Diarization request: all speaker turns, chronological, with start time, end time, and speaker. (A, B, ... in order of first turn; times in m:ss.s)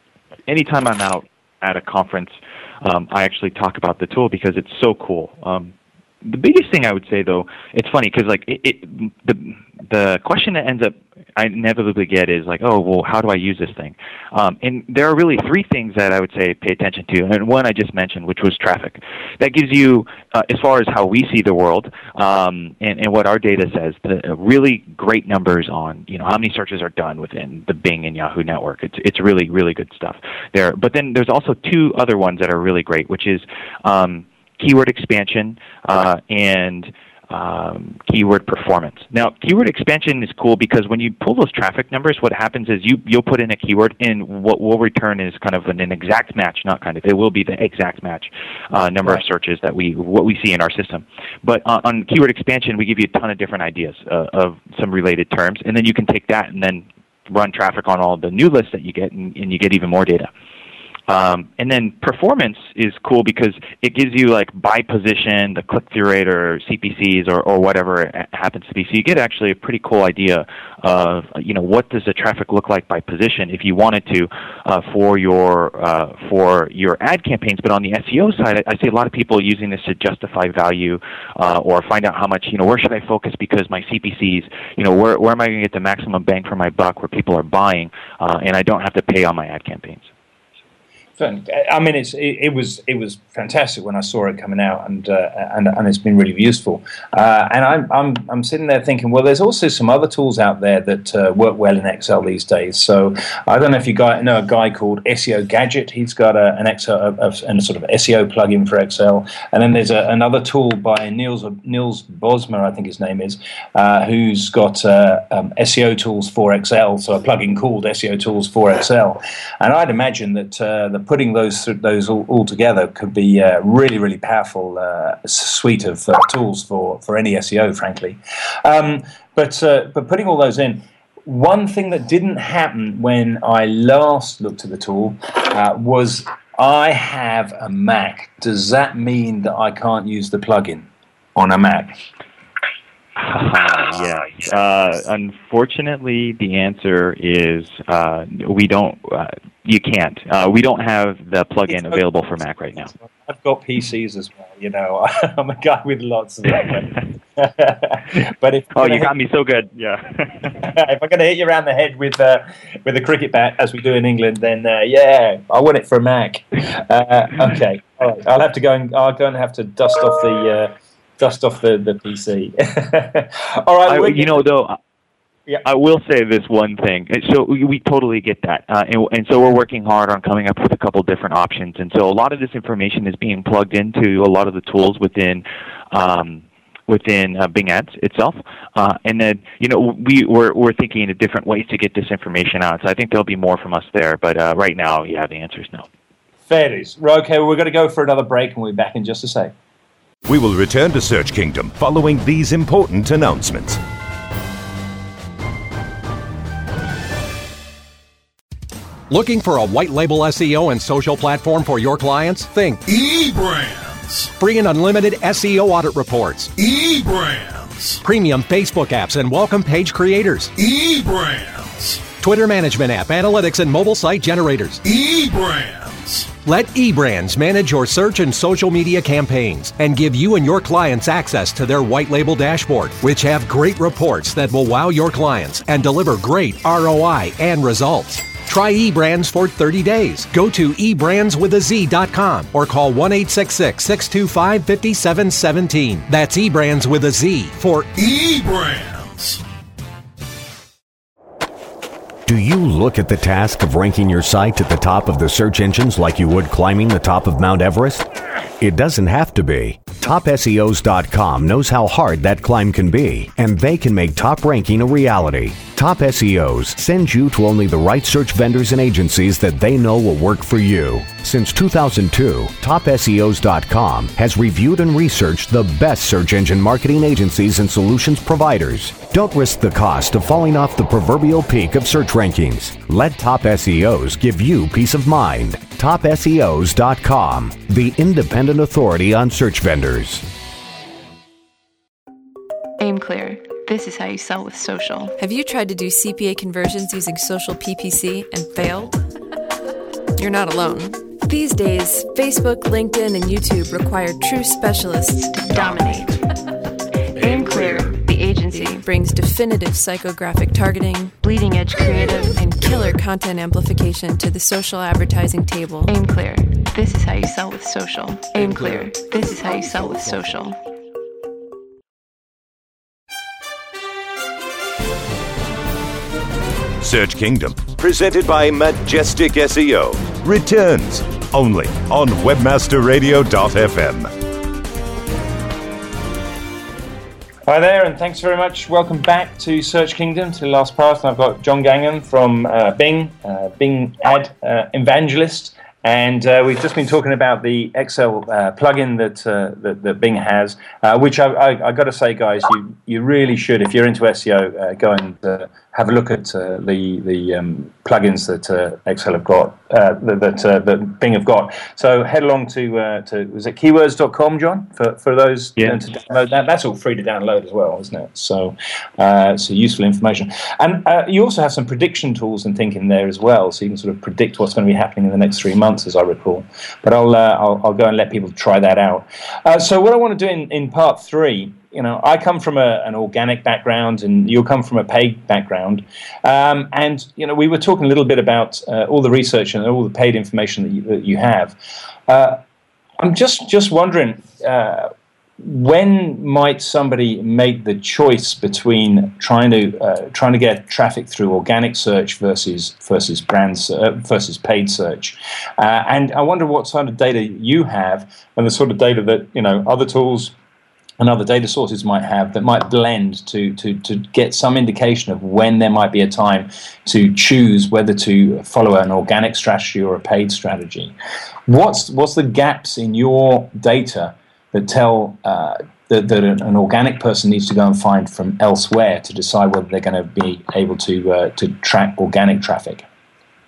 0:00.5-1:00.3 A
1:01.1-1:30.1 A
1:31.2-2:22.0 B
2:23.2-2:32.9 A
2:31.7-2:32.0 B
2:33.0-2:39.1 B
2:38.8-2:40.6 A
2:40.6-2:54.4 B
2:53.9-2:54.8 A
2:55.6-3:15.9 A
3:16.5-3:19.5 B
3:20.3-3:23.8 C
3:29.1-3:32.8 D
3:32.8-3:34.3 E
3:34.4-3:36.5 D
3:36.6-3:38.0 E
3:38.0-3:40.5 D
3:40.6-3:42.1 E
3:42.2-3:44.8 D
3:44.8-3:46.3 E
3:46.4-4:07.9 D
4:08.0-4:09.4 E
4:12.3-4:18.1 F
4:18.6-4:50.2 F
4:52.8-4:55.2 G
4:55.2-4:59.0 H
5:00.2-5:06.1 H
5:05.3-5:06.2 G
5:07.2-5:08.8 G
5:08.7-5:11.2 H
5:11.2-5:12.3 G
5:12.0-5:15.9 H
5:15.9-5:20.6 G
5:26.8-5:34.1 C
5:37.5-6:31.6 B
6:32.1-6:32.4 B
6:33.0-6:50.3 B
6:51.0-7:00.9 B
7:01.5-7:12.9 B